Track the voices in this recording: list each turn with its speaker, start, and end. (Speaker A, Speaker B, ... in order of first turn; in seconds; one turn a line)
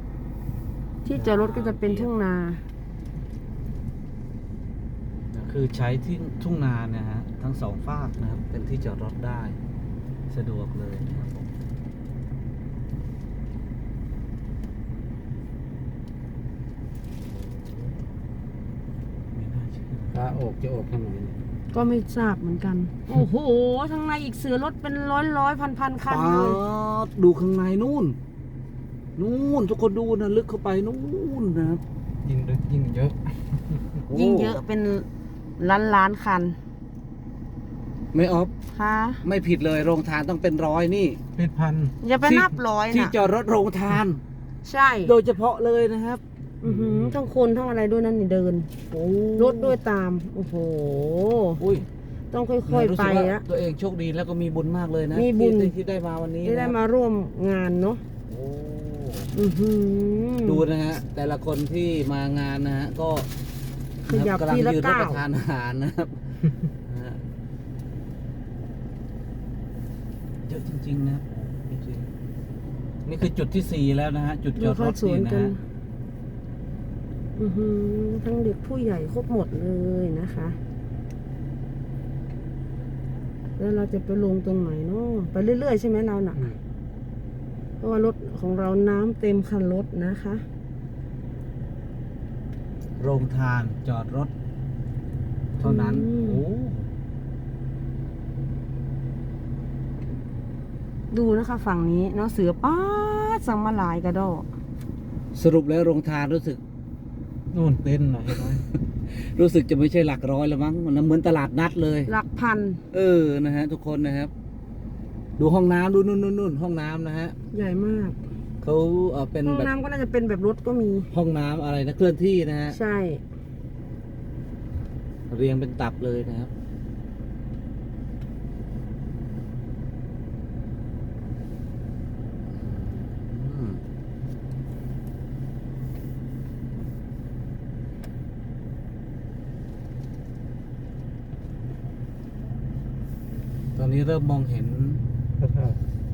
Speaker A: 1.0-2.6
Speaker B: 1.1-2.1
Speaker B: 5.3-9.6
Speaker B: 10.3-11.5
Speaker B: 17.3-17.9
Speaker B: 19.3-20.4
Speaker C: 20.1-21.4
Speaker A: 21.7-26.6
Speaker B: 26.0-28.2
Speaker B: 29.1-31.8
Speaker C: 32.2-33.9
Speaker B: 34.1-34.6
Speaker A: 34.1-35.1
Speaker A: 35.6-36.6
Speaker B: 38.1-38.5
Speaker A: 38.7-39.2
Speaker B: 39.2-41.2
Speaker C: 41.4-41.9
Speaker A: 42.0-43.1
Speaker B: 42.2-44.2
Speaker A: 44.6-45.1
Speaker B: 45.0-46.2
Speaker A: 46.6-48.7
Speaker C: 46.6-47.1
Speaker B: 48.9-49.8
Speaker A: 49.4-51.6
Speaker B: 51.6-51.9
Speaker A: 52.3-53.4
Speaker B: 52.7-56.8
Speaker A: 55.1-55.7
Speaker A: 56.4-58.0
Speaker B: 58.3-59.3
Speaker A: 59.3-60.6
Speaker B: 60.4-63.3
Speaker A: 64.0-65.2
Speaker B: 64.1-67.2
Speaker B: 70.5-72.1
Speaker B: 73.0-75.5
Speaker A: 74.5-75.6
Speaker A: 77.3-80.6
Speaker A: 83.6-86.4
Speaker A: 87.8-90.4
Speaker B: 93.0-94.3
Speaker B: 95.6-96.9
Speaker A: 95.6-96.4
Speaker A: 101.1-104.5
Speaker B: 105.3-106.6
Speaker C: 107.5-108.5
Speaker B: 108.3-112.1
Speaker A: 112.0-112.8
Speaker B: 112.9-114.3
Speaker B: 115.4-117.3
Speaker A: 117.5-118.2
Speaker B: 118.6-119.7
Speaker A: 119.4-121.1
Speaker B: 121.1-122.8
Speaker A: 122.7-123.2
Speaker B: 125.3-126.5
Speaker B: 132.4-133.8
Speaker B: 143.7-145.0
Speaker C: 145.4-145.8